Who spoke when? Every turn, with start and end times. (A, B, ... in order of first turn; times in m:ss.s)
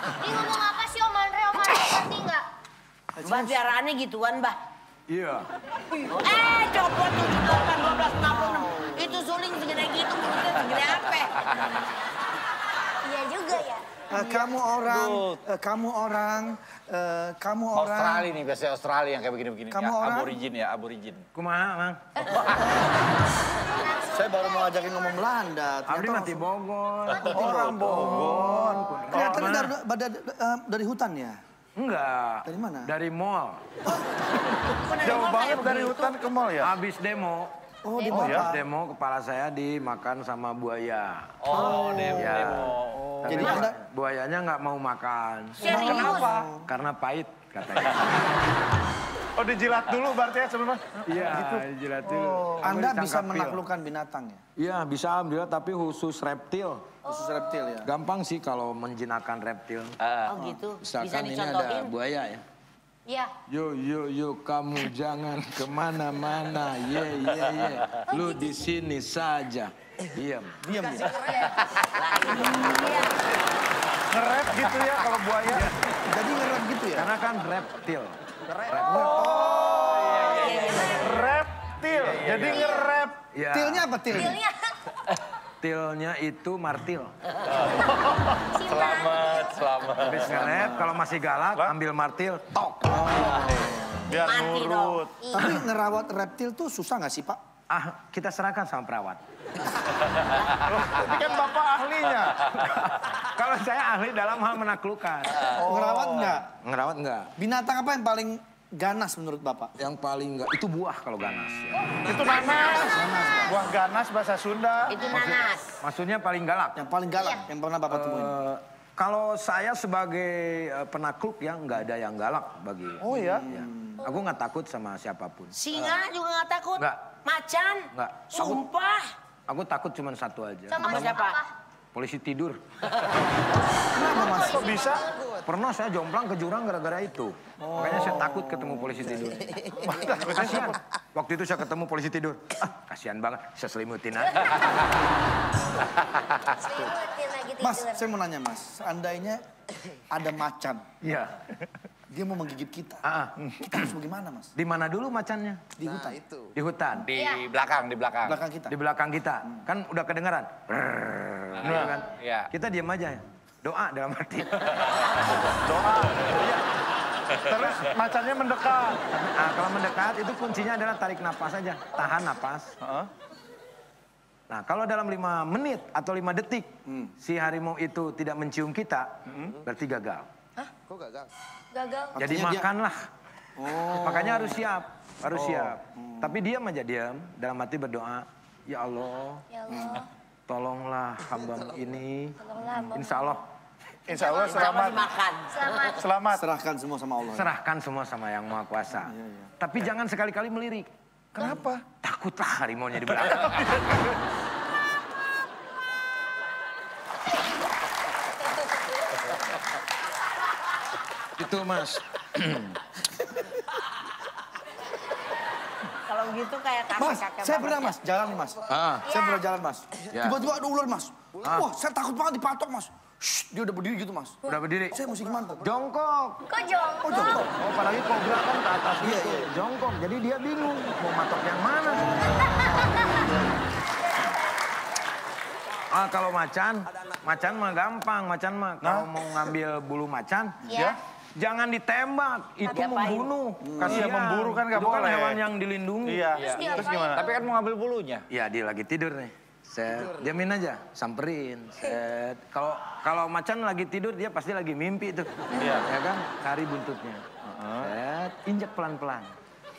0:00.2-0:02.5 A
0:03.1-0:03.7 B
0:03.2-0:04.6 C
0:05.1-0:05.5 D
0:06.0-0:11.4 C
0:13.0-0:14.4 A
0:14.1-0:18.3 B
0:14.8-0:15.2 E
0:17.7-0:21.2 E
0:19.7-0:20.4 B
0:21.3-0:22.3 D
0:22.3-0:23.1 B
0:23.5-0:25.3 A
0:24.0-0:26.5 B
0:25.9-0:29.7 D
0:27.2-0:28.0 B
0:27.3-0:29.5 F
0:29.1-0:31.4 B
0:31.8-0:33.6 D
0:32.4-0:32.9 B
0:34.6-0:36.2 C
0:35.0-0:36.7 F
0:36.6-0:37.5 D
0:37.8-0:38.6 B
0:38.0-0:38.3 A
0:38.0-0:48.3 D
0:38.1-0:38.5 F
0:41.4-0:43.6 E
0:41.5-0:42.5 C
0:43.2-0:43.8 B
0:45.6-0:46.4 C
0:45.6-0:46.7 B
0:45.7-0:46.5 F
0:49.4-0:52.7 F
0:51.0-0:53.6 D
0:52.6-0:54.4 B
0:54.6-0:57.0 D
0:57.0-0:57.8 A
0:57.0-0:57.9 B
0:57.8-1:00.0 D
1:00.0-1:00.3 E
1:00.2-1:01.9 C
1:00.8-1:02.4 D
1:03.0-1:03.3 A
1:03.5-1:10.6 D
1:08.1-1:08.7 A
1:10.6-1:11.4 B
1:11.2-1:11.6 A
1:11.8-1:13.2 C
1:14.1-1:15.7 F
1:15.9-1:17.1 B
1:16.9-1:18.2 D
1:18.5-1:20.0 F
1:18.7-1:19.5 D
1:18.8-1:20.9 E
1:19.1-1:20.3 B
1:19.8-1:21.2 C
1:20.9-1:23.2 F
1:22.0-1:23.0 E
1:22.5-1:22.9 A
1:23.3-1:24.4 D
1:23.5-1:24.4 B
1:24.1-1:24.7 A
1:25.6-1:27.1 D
1:27.5-1:27.9 E
1:28.4-1:29.4 A
1:28.6-1:30.5 E
1:30.0-1:33.0 D
1:30.2-1:30.9 B
1:32.9-1:34.0 B
1:34.0-1:35.3 F
1:34.1-1:35.5 C
1:35.3-1:37.4 B
1:37.7-1:39.2 D
1:40.6-1:42.5 F
1:42.6-1:45.5 D
1:45.5-1:46.3 F
1:45.6-1:46.5 B
1:46.4-1:47.3 D
1:47.4-1:49.7 B
1:49.8-1:52.0 D
1:52.0-1:55.1 F
1:52.9-1:53.7 B
1:54.9-1:55.8 C
1:55.1-1:56.8 D
1:56.7-1:58.4 B
1:57.1-1:57.4 A
1:57.9-2:06.0 D
2:03.0-2:03.4 F
2:03.1-2:04.0 B
2:05.5-2:09.0 C
2:07.9-2:08.6 D
2:09.5-2:11.1 D
2:10.7-2:11.5 A
2:10.8-2:11.4 C
2:11.9-2:12.6 D
2:13.9-2:14.8 B
2:13.9-2:15.3 A
2:14.4-2:15.1 F
2:15.3-2:24.8 D
2:17.6-2:19.6 B
2:19.8-2:20.7 F
2:26.5-2:28.1 A
2:27.6-2:29.4 B
2:30.1-2:30.8 B
2:31.0-2:31.4 D
2:32.1-2:33.0 B
2:33.0-2:33.8 D
2:33.6-2:34.5 B
2:34.6-2:35.6 D
2:35.8-2:36.4 B
2:36.5-2:37.1 D
2:37.1-2:38.4 E
2:37.1-2:37.4 A
2:38.2-2:38.7 B
2:38.7-2:44.8 D
2:41.6-2:42.5 E
2:45.5-2:46.6 F
2:47.4-2:49.0 F
2:49.1-2:52.7 D
2:52.8-2:53.1 F
2:54.5-3:00.3 D
2:56.9-2:57.1 B
3:01.7-3:02.2 A
3:02.1-3:03.1 D
3:02.2-3:02.7 B
3:03.6-3:04.6 B
3:03.9-3:09.4 D
3:05.9-3:06.3 B
3:09.5-3:10.1 A
3:10.5-3:13.4 D
3:12.4-3:13.4 A
3:14.1-3:15.1 F
3:14.1-3:14.9 A
3:14.3-3:16.0 C
3:15.5-3:16.0 A
3:16.0-3:16.4 F
3:16.3-3:17.5 B
3:17.3-3:20.9 D
3:19.0-3:19.5 B
3:21.3-3:21.8 F
3:21.4-3:21.7 B
3:22.0-3:24.0 D
3:31.4-3:32.8 D
3:36.0-3:38.0 C
3:36.9-3:44.4 B
3:38.7-3:39.1 D
3:39.1-3:39.4 A
3:40.1-3:40.4 D
3:41.4-3:41.7 D
3:44.4-3:45.0 D
3:44.9-3:45.7 B
3:45.6-3:46.4 D
3:46.5-3:47.4 A
3:47.0-3:47.5 B
3:47.2-3:52.4 D
3:49.0-3:49.5 B
3:51.9-3:53.6 B
3:55.9-4:00.8 D
3:58.8-3:59.1 F
4:00.7-4:01.0 A
4:01.4-4:06.4 D
4:02.6-4:03.3 C
4:03.6-4:04.1 B
4:03.8-4:05.4 F
4:06.0-4:07.2 F
4:06.4-4:07.4 A
4:06.4-4:08.3 E
4:08.3-4:17.2 D
4:15.6-4:15.9 F
4:17.4-4:17.9 F
4:17.8-4:19.3 D